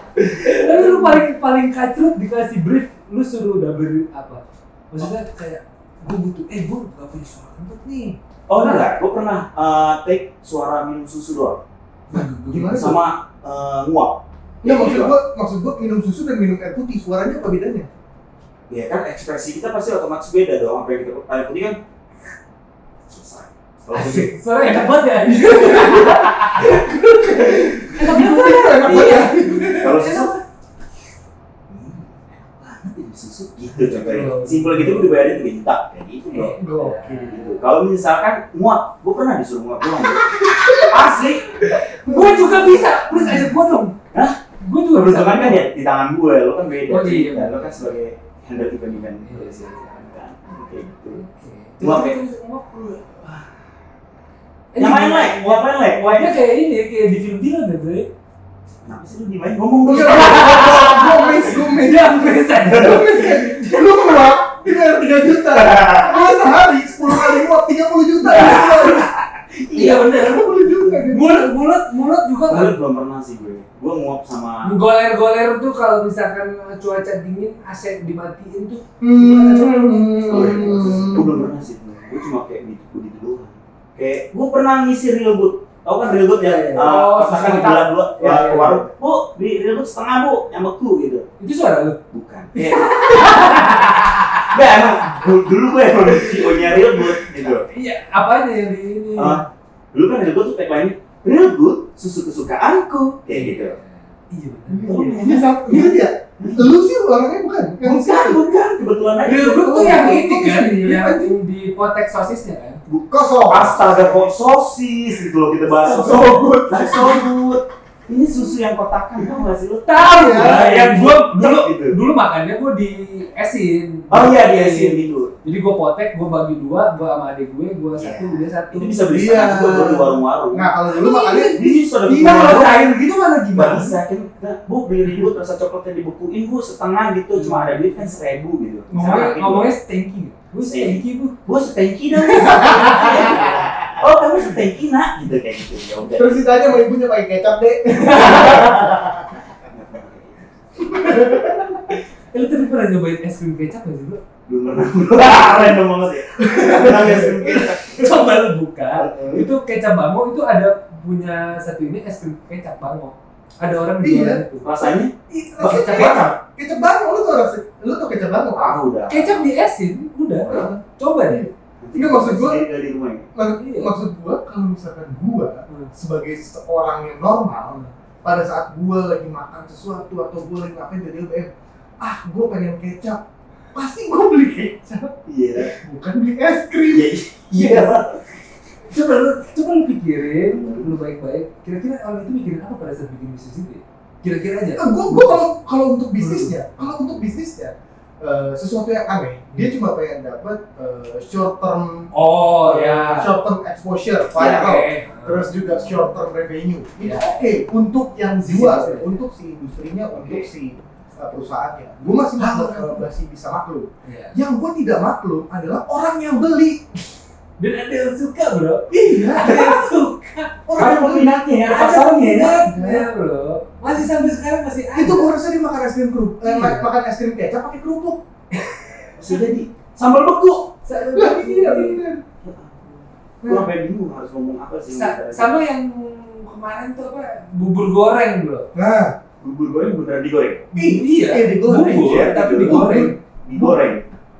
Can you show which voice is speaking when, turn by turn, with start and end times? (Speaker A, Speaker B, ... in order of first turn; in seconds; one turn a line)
Speaker A: 0.3-8.9
Speaker B: 0.4-1.0
Speaker B: 8.5-11.6
Speaker A: 12.1-12.7
Speaker C: 12.1-13.0
Speaker B: 12.5-15.1
Speaker C: 14.6-17.9
Speaker B: 18.7-21.8
Speaker B: 23.1-24.9
Speaker A: 23.9-30.4
Speaker C: 25.4-30.1
Speaker B: 29.8-30.3
Speaker B: 31.7-36.6
Speaker A: 33.8-35.3
Speaker A: 36.3-37.5
Speaker C: 36.5-37.5
Speaker B: 37.3-41.7
Speaker C: 40.3-41.0
Speaker A: 41.7-44.0
Speaker C: 42.0-42.6
Speaker C: 43.1-43.5
Speaker B: 44.1-44.4
Speaker A: 44.6-45.7
Speaker B: 44.9-51.2
Speaker A: 46.9-47.9
Speaker A: 49.2-49.9
Speaker A: 51.1-53.0
Speaker B: 51.8-52.2
Speaker A: 54.7-58.1
Speaker B: 54.8-56.4
Speaker B: 58.8-61.5
Speaker C: 59.8-69.1
Speaker A: 60.0-63.8
Speaker B: 62.7-63.3
Speaker B: 65.5-66.3
Speaker B: 68.3-70.7
Speaker A: 68.3-68.9
Speaker A: 69.7-70.5
Speaker C: 69.9-71.5
Speaker A: 71.1-72.8
Speaker B: 72.5-74.7
Speaker A: 74.6-81.2
Speaker C: 79.0-81.5
Speaker B: 80.3-91.2
Speaker C: 86.3-86.9
Speaker A: 86.7-88.8
Speaker C: 88.2-88.9
Speaker A: 91.4-92.0
Speaker B: 92.1-97.7
Speaker A: 92.5-94.6
Speaker A: 96.3-96.7
Speaker A: 97.6-99.4
Speaker B: 99.2-103.8
Speaker A: 103.3-105.4
Speaker C: 104.7-108.4
Speaker B: 104.8-106.7
Speaker B: 107.8-110.2
Speaker A: 109.2-112.8
Speaker C: 109.3-111.3
Speaker C: 112.9-114.3
Speaker B: 113.5-122.0
Speaker C: 115.7-117.3
Speaker A: 119.8-129.0
Speaker C: 120.0-120.8
Speaker B: 124.1-125.3
Speaker B: 128.0-130.7
Speaker C: 129.1-131.8
Speaker A: 130.9-133.9
Speaker B: 131.5-132.9
Speaker B: 133.5-139.7
Speaker A: 137.3-137.9
Speaker A: 138.9-141.4
Speaker B: 140.6-146.5
Speaker A: 142.1-143.7
Speaker C: 142.9-143.5
Speaker C: 146.1-149.4
Speaker A: 148.1-148.7
Speaker B: 148.2-148.9
Speaker B: 149.6-151.6
Speaker C: 150.8-151.9
Speaker A: 152.3-154.2
Speaker B: 154.5-158.3
Speaker C: 156.4-157.6
Speaker A: 156.4-164.7
Speaker B: 158.9-159.5
Speaker C: 164.0-164.4
Speaker B: 164.6-166.3
Speaker C: 165.3-168.8
Speaker A: 165.6-166.3
Speaker B: 168.6-169.5
Speaker A: 169.1-171.5
Speaker C: 170.4-172.7
Speaker B: 171.8-173.3
Speaker C: 173.3-183.2
Speaker A: 173.6-173.9
Speaker C: 183.7-187.8
Speaker B: 185.3-185.7
Speaker B: 186.9-188.4
Speaker A: 187.6-187.8
Speaker A: 188.9-195.4
Speaker B: 190.5-190.9
Speaker C: 194.8-202.1
Speaker A: 196.2-196.8
Speaker A: 202.1-203.3
Speaker C: 202.6-217.0
Speaker A: 204.3-205.9
Speaker A: 207.0-207.4
Speaker A: 208.4-209.2
Speaker B: 210.2-210.4
Speaker A: 212.3-213.0
Speaker A: 214.0-214.4
Speaker A: 217.6-220.9
Speaker C: 218.9-219.7
Speaker B: 219.2-219.8
Speaker C: 220.6-221.4
Speaker B: 220.7-222.7
Speaker A: 221.6-225.3
Speaker C: 222.7-223.1
Speaker C: 224.9-228.2
Speaker A: 226.4-226.9
Speaker A: 228.5-229.3
Speaker B: 229.2-230.7
Speaker A: 230.8-232.0
Speaker C: 231.1-232.2
Speaker B: 232.4-235.5
Speaker C: 233.4-233.7
Speaker A: 234.9-238.7
Speaker C: 238.7-239.2
Speaker B: 239.4-240.7
Speaker C: 240.7-243.9
Speaker A: 240.8-243.2
Speaker B: 241.7-244.0